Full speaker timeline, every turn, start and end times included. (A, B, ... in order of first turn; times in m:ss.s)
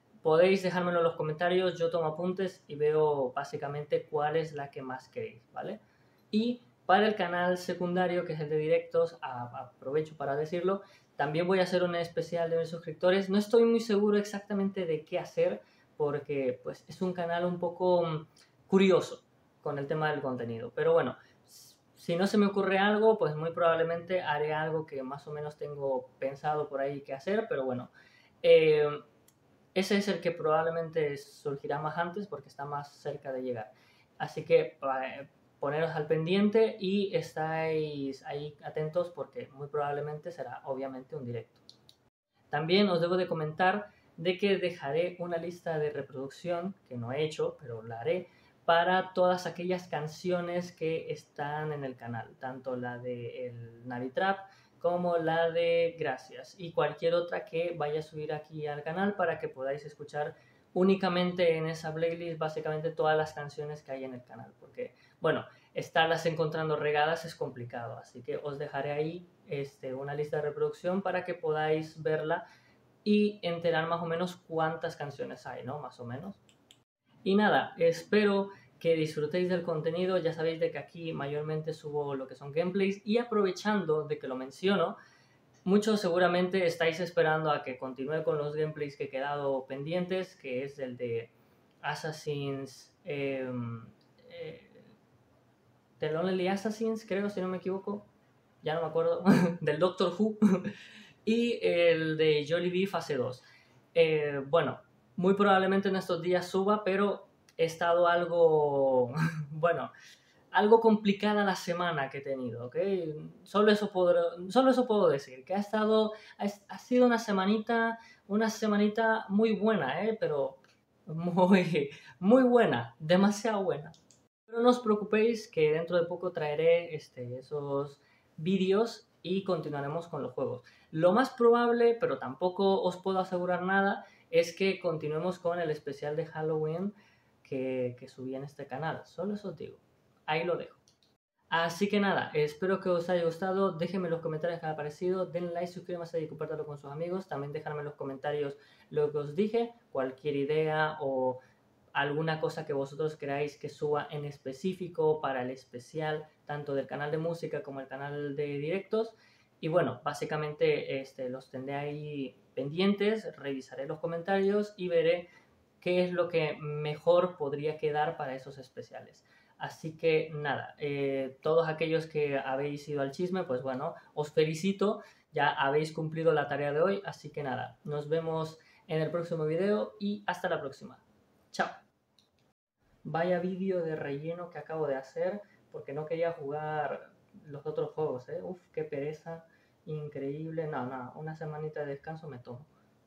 0:00.2-0:27.9 A
0:28.4-0:29.0 A
0:29.8-0:41.6 A
0:42.5-1:12.4 A
1:13.0-1:16.4 A
1:17.2-1:25.0 A
1:25.6-1:34.9 A
1:36.0-1:38.1 A
1:38.6-1:40.7 A
1:41.2-1:43.4 A
1:44.0-1:49.9 A
1:50.5-2:04.0 A
2:04.5-2:20.8 A
2:21.5-2:31.4 A
2:32.0-2:45.3 A
2:45.8-3:01.8 A
3:03.0-3:12.7 A